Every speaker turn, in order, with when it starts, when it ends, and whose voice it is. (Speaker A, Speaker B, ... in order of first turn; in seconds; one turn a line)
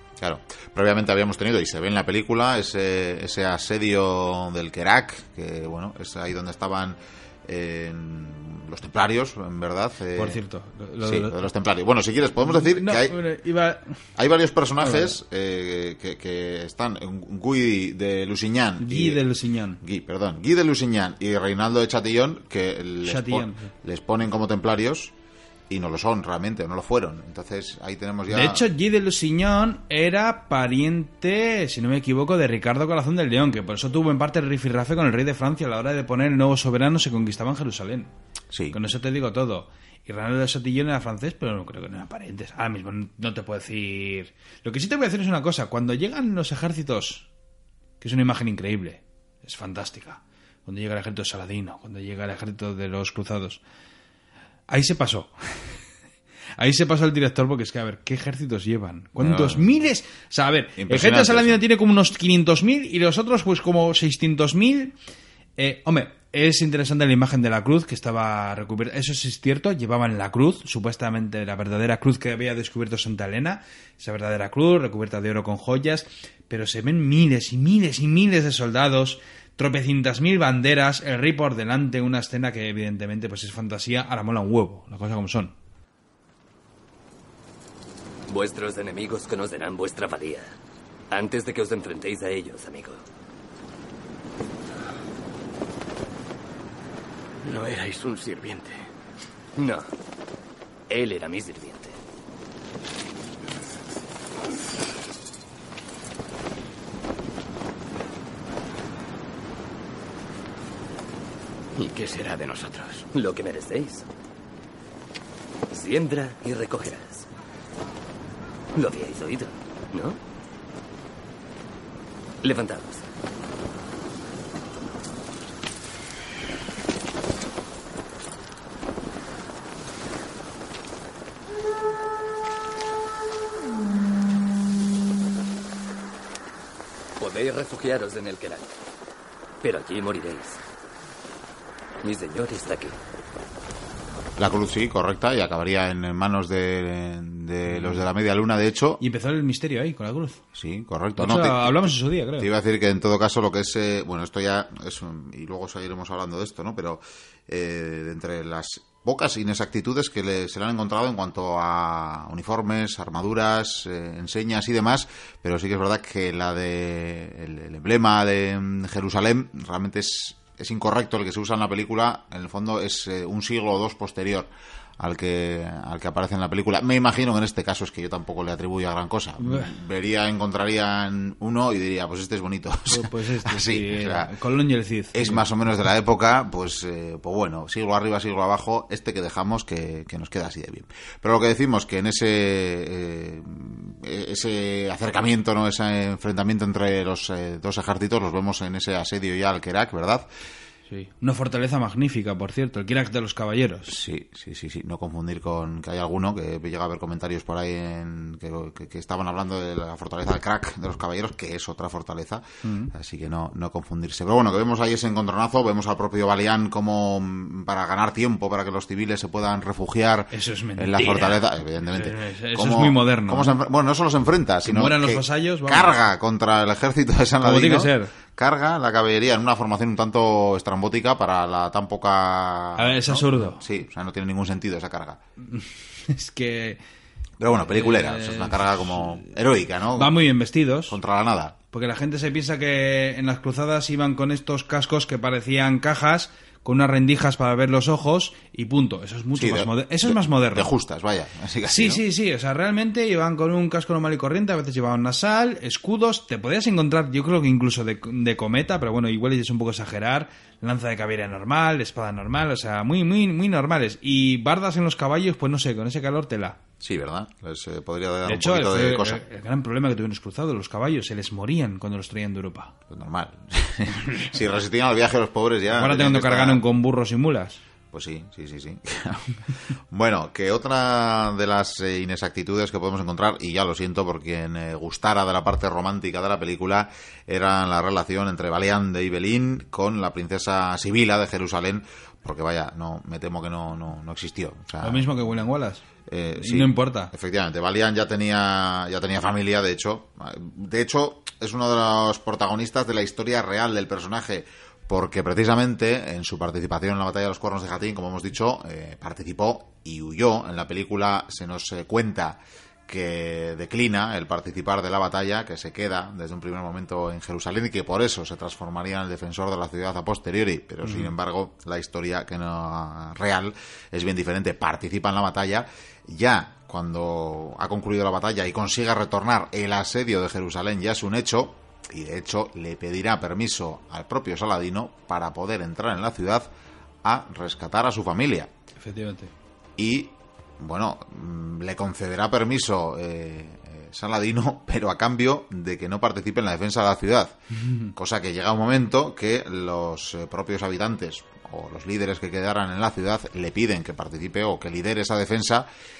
Speaker A: 0.2-10.4
Speaker B: 10.1-11.4
Speaker A: 11.0-13.2
Speaker B: 12.4-14.0
Speaker A: 14.2-19.2
Speaker B: 14.8-15.1
Speaker B: 18.8-19.8
Speaker A: 19.8-25.1
Speaker B: 23.0-23.7
Speaker A: 25.7-28.6
Speaker B: 28.3-38.1
Speaker B: 38.7-47.2
Speaker B: 48.0-53.6
Speaker B: 54.7-55.8
Speaker B: 56.6-64.9
Speaker A: 59.2-59.7
Speaker A: 60.8-61.6
Speaker B: 65.6-85.5
Speaker C: 88.3-90.5
Speaker C: 91.1-93.0
Speaker C: 97.4-98.9
Speaker C: 99.6-99.8
Speaker C: 100.9-102.0
Speaker C: 111.8-114.0
Speaker C: 115.7-117.2
Speaker C: 118.8-120.2
Speaker C: 122.4-123.0
Speaker C: 137.2-138.7
Speaker C: 139.6-140.6
Speaker C: 142.0-142.9
Speaker A: 144.4-149.0
Speaker B: 147.7-148.0
Speaker B: 149.0-150.4
Speaker A: 150.5-184.3
Speaker B: 151.2-152.5
Speaker B: 179.4-179.7
Speaker B: 182.9-185.4
Speaker A: 185.1-200.3
Speaker B: 200.9-204.0
Speaker A: 203.9-235.2
Speaker B: 212.6-212.9
Speaker B: 220.3-221.4
Speaker B: 221.9-223.6
Speaker B: 224.6-226.0
Speaker B: 227.4-228.1
Speaker B: 232.8-233.6
Speaker B: 235.4-236.8
Speaker A: 237.4-240.2
Speaker B: 237.7-239.2
Speaker B: 239.9-240.9
Speaker A: 240.9-241.6
Speaker B: 241.7-250.7
Speaker A: 249.3-252.0
Speaker B: 251.7-266.6
Speaker A: 266.8-269.2
Speaker B: 268.2-272.7
Speaker A: 272.9-276.6
Speaker B: 275.7-277.6
Speaker A: 277.9-295.2
Speaker B: 294.8-295.8
Speaker A: 296.1-336.5
Speaker B: 296.4-297.1
Speaker B: 320.8-321.1
Speaker A: 337.0-338.5
Speaker B: 338.8-339.3
Speaker A: 339.8-347.4
Speaker B: 347.6-347.9
Speaker A: 347.9-355.7